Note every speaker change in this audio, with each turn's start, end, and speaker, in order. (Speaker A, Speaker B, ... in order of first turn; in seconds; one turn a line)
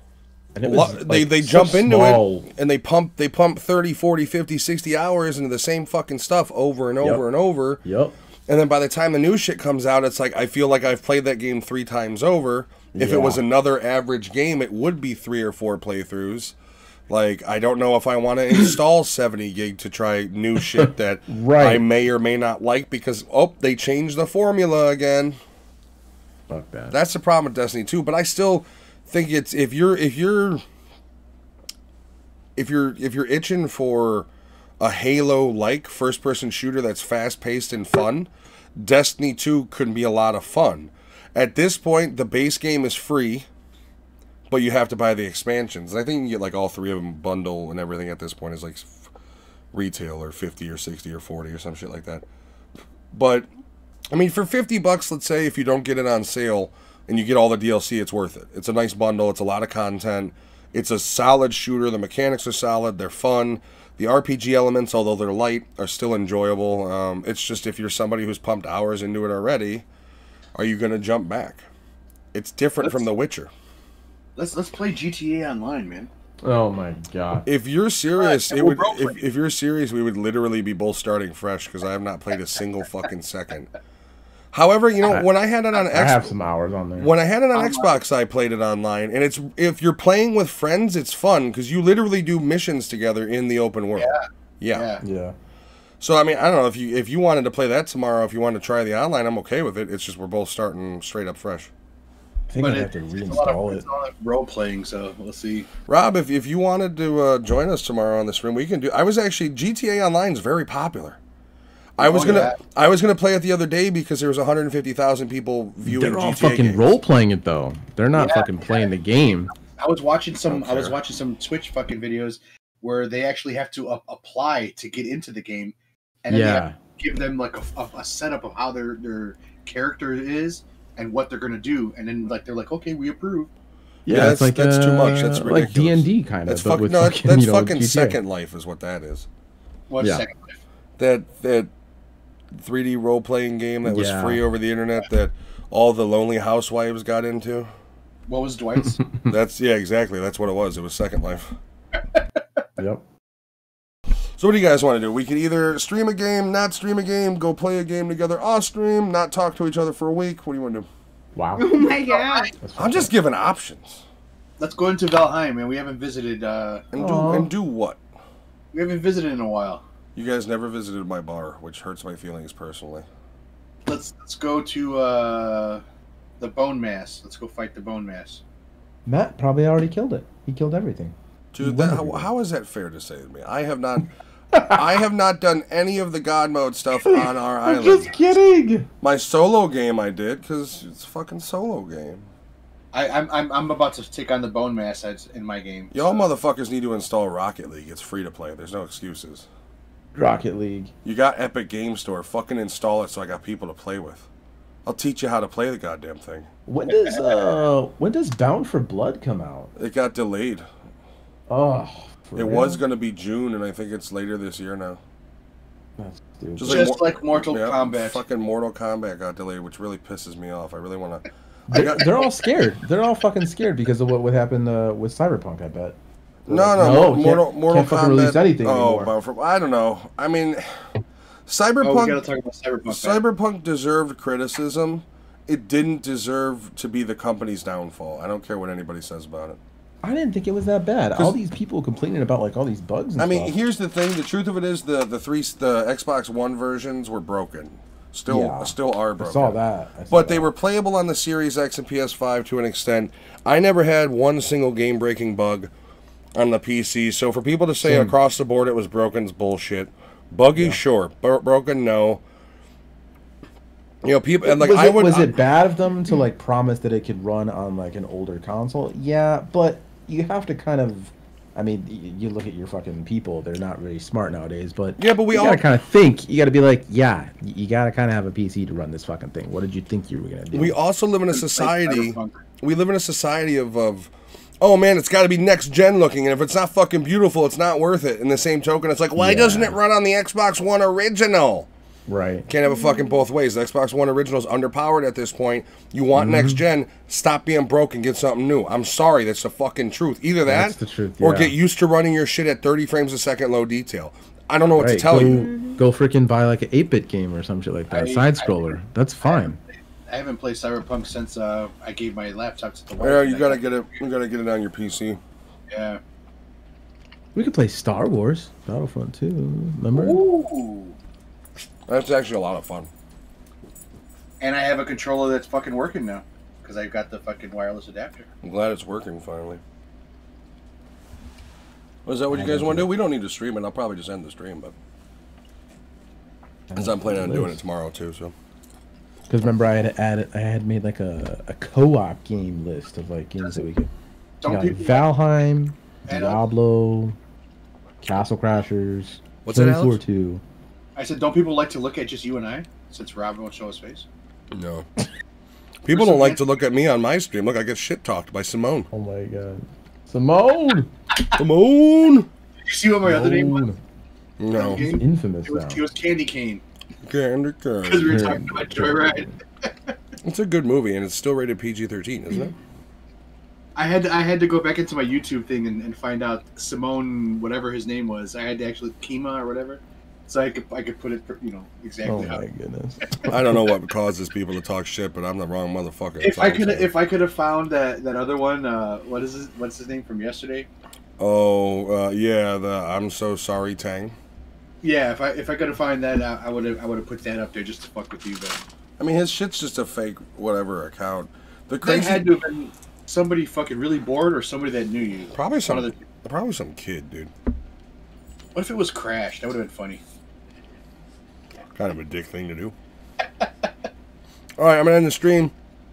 Speaker A: 0.6-2.5
Speaker B: 0.6-7.8
Speaker A: 7.0-7.3
Speaker A: 7.8-8.1
Speaker B: 8.5-16.6
Speaker A: 12.9-13.4
Speaker B: 17.1-25.4
Speaker A: 20.8-21.9
Speaker A: 26.5-26.9
Speaker B: 26.9-30.6
Speaker B: 32.6-34.3
Speaker B: 34.8-43.5
Speaker B: 44.5-49.1
Speaker B: 49.7-52.2
Speaker B: 53.1-53.5
Speaker B: 54.1-69.8
Speaker B: 70.5-71.7
Speaker B: 72.3-73.5
Speaker C: 72.8-73.1
Speaker C: 74.4-76.1
Speaker A: 76.4-77.5
Speaker B: 77.5-83.7
Speaker C: 78.2-79.2
Speaker B: 84.5-86.3
Speaker A: 85.1-87.1
Speaker B: 87.0-94.9
Speaker C: 87.5-88.0
Speaker C: 94.0-95.0
Speaker A: 95.0-95.3
Speaker B: 96.0-101.7
Speaker A: 102.5-103.8
Speaker C: 102.6-105.7
Speaker B: 105.9-111.2
Speaker B: 112.0-117.0
Speaker C: 112.0-112.6
Speaker A: 115.8-119.5
Speaker C: 118.2-118.5
Speaker C: 119.8-133.5
Speaker B: 120.5-121.0
Speaker A: 126.3-126.8
Speaker A: 134.1-138.2
Speaker B: 134.1-139.3
Speaker C: 139.9-140.6
Speaker A: 140.0-140.3
Speaker B: 141.0-141.7
Speaker B: 142.5-147.7
Speaker A: 143.8-144.4
Speaker C: 148.3-149.0
Speaker B: 149.3-151.6
Speaker A: 152.8-153.0
Speaker B: 154.4-160.9
Speaker A: 161.3-161.7
Speaker D: 161.6-162.5
Speaker C: 162.1-162.5
Speaker A: 162.6-163.1
Speaker B: 162.8-164.1
Speaker C: 164.6-166.8
Speaker B: 166.9-168.0
Speaker A: 166.9-167.5
Speaker C: 168.7-169.8
Speaker B: 170.1-173.1
Speaker C: 173.8-175.8
Speaker C: 176.4-178.4
Speaker A: 179.1-182.3
Speaker B: 181.5-188.4
Speaker A: 184.5-184.8
Speaker A: 187.1-188.9
Speaker B: 189.0-192.3
Speaker C: 192.9-196.2
Speaker B: 195.9-199.5
Speaker A: 200.1-200.9
Speaker B: 201.1-204.3
Speaker B: 204.8-206.5
Speaker A: 206.7-209.7
Speaker C: 206.9-207.5
Speaker B: 209.8-210.7
Speaker A: 211.5-212.8
Speaker B: 212.3-215.0
Speaker A: 216.0-216.9
Speaker B: 216.6-222.1
Speaker C: 216.6-218.2
Speaker A: 221.7-226.0
Speaker B: 226.4-230.8
Speaker A: 226.5-229.1
Speaker B: 231.5-232.2
Speaker C: 231.8-233.2
Speaker B: 232.9-239.6
Speaker A: 240.0-243.5
Speaker B: 243.2-249.6
Speaker A: 248.3-250.5
Speaker B: 250.1-255.7
Speaker B: 256.4-262.2
Speaker A: 257.8-258.1
Speaker A: 260.6-260.8
Speaker B: 264.0-265.4
Speaker A: 264.4-280.8
Speaker B: 275.0-275.6
Speaker B: 280.5-291.7
Speaker C: 281.3-282.4
Speaker A: 289.2-289.8
Speaker A: 292.1-292.5
Speaker B: 292.5-305.5
Speaker D: 292.6-293.2
Speaker A: 296.1-296.6
Speaker A: 300.4-301.6
Speaker A: 304.8-309.6
Speaker D: 305.3-305.8
Speaker C: 307.9-313.7
Speaker B: 313.0-315.2
Speaker C: 315.7-316.0
Speaker A: 317.4-320.2
Speaker C: 319.9-321.0
Speaker B: 321.9-322.9
Speaker C: 324.4-328.3
Speaker B: 328.4-329.6
Speaker B: 332.1-334.7
Speaker A: 332.3-332.9
Speaker A: 336.7-337.6
Speaker B: 336.7-338.4
Speaker A: 339.3-343.9
Speaker C: 344.4-345.1
Speaker A: 344.4-347.1
Speaker C: 346.1-346.4
Speaker A: 348.0-350.4
Speaker B: 349.4-350.0
Speaker C: 350.9-354.1
Speaker B: 354.5-354.9
Speaker B: 355.8-358.9
Speaker C: 355.9-356.4
Speaker A: 358.9-360.9
Speaker B: 361.4-362.3
Speaker C: 362.7-363.6
Speaker A: 363.0-363.8
Speaker B: 364.4-364.9
Speaker C: 364.5-366.6
Speaker A: 364.9-365.8
Speaker B: 367.0-368.4
Speaker C: 367.8-369.9
Speaker A: 368.1-369.3
Speaker B: 370.2-372.6
Speaker C: 373.8-382.4
Speaker A: 382.1-383.6
Speaker B: 383.3-386.9
Speaker C: 386.2-390.7
Speaker B: 391.2-394.1
Speaker C: 394.8-398.6
Speaker B: 399.0-402.4
Speaker C: 401.8-406.0
Speaker B: 405.3-407.3
Speaker C: 408.5-410.0
Speaker B: 411.7-412.7
Speaker B: 414.6-415.5